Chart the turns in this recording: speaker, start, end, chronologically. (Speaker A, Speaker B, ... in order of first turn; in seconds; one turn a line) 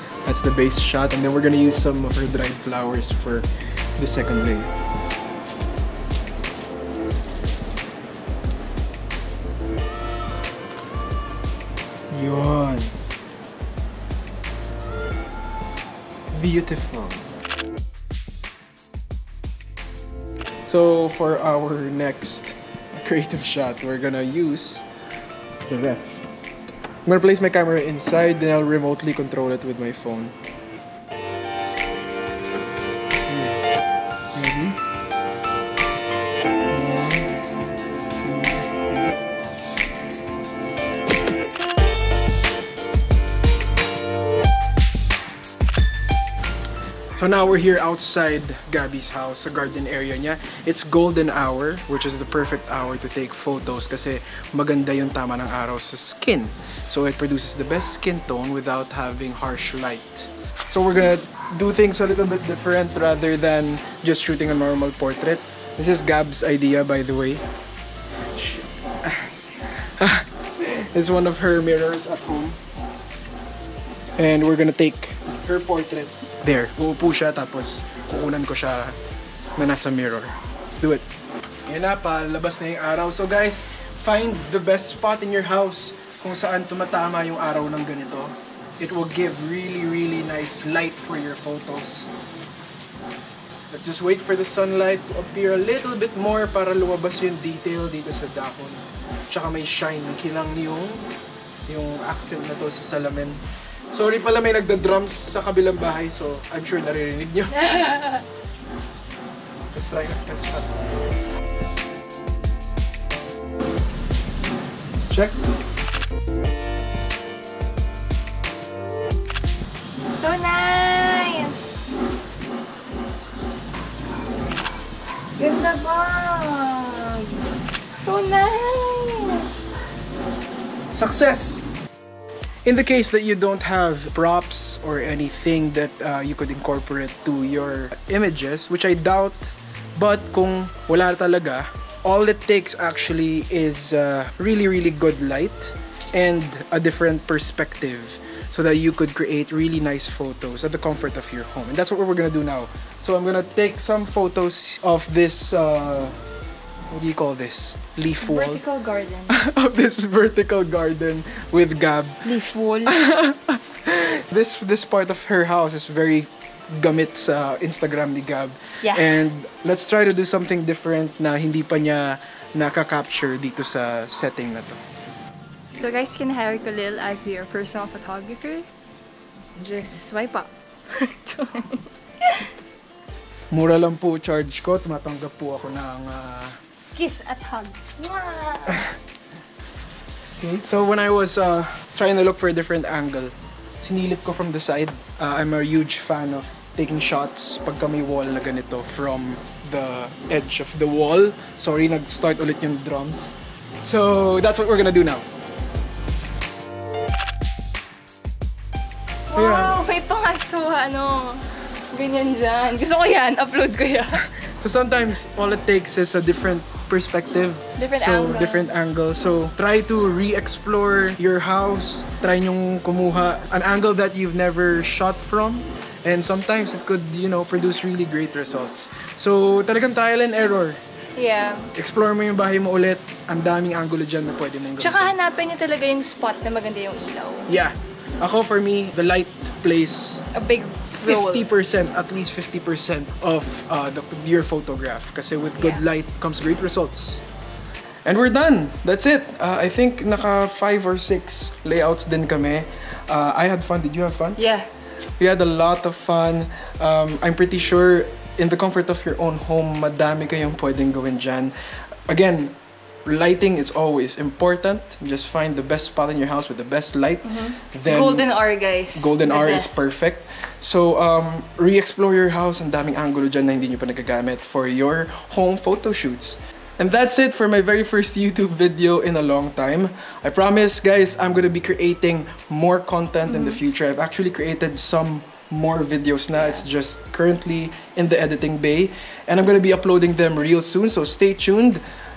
Speaker A: 0.2-4.7
Speaker A: 12.1-12.9
Speaker A: 16.3-17.3
Speaker A: 20.6-24.9
Speaker A: 25.7-26.3
Speaker A: 27.0-30.3
Speaker A: 33.3-33.6
Speaker A: 34.3-34.8
Speaker A: 36.7-37.4
Speaker A: 38.2-39.1
Speaker A: 47.2-67.4
Speaker A: 68.3-72.6
Speaker A: 74.2-79.0
Speaker A: 79.6-81.1
Speaker A: 81.7-92.1
Speaker A: 93.7-101.0
Speaker A: 101.7-103.4
Speaker A: 103.9-107.9
Speaker B: 107.5-108.2
Speaker A: 109.7-110.7
Speaker A: 115.1-115.4
Speaker B: 120.1-121.8
Speaker B: 125.4-127.4
Speaker B: 128.0-129.5
Speaker A: 130.9-131.7
Speaker A: 132.7-156.2
Speaker A: 156.9-158.6
Speaker B: 158.2-159.4
Speaker A: 159.3-162.3
Speaker B: 162.2-163.0
Speaker A: 162.9-174.8
Speaker B: 168.8-169.1
Speaker B: 175.7-178.7
Speaker B: 179.6-182.5
Speaker A: 183.5-186.6
Speaker B: 186.9-188.9
Speaker A: 190.4-205.3
Speaker B: 209.3-214.3
Speaker A: 209.3-209.8
Speaker A: 214.2-230.8
Speaker B: 217.8-218.7
Speaker B: 231.2-231.7
Speaker A: 231.7-235.1
Speaker B: 234.8-237.5
Speaker A: 237.5-240.3
Speaker B: 240.3-241.5
Speaker A: 241.0-247.2
Speaker B: 245.6-245.8
Speaker A: 248.1-254.4
Speaker B: 254.4-254.7
Speaker A: 255.2-261.5
Speaker A: 262.1-268.3
Speaker B: 267.2-269.8
Speaker A: 268.9-291.8
Speaker B: 283.3-283.6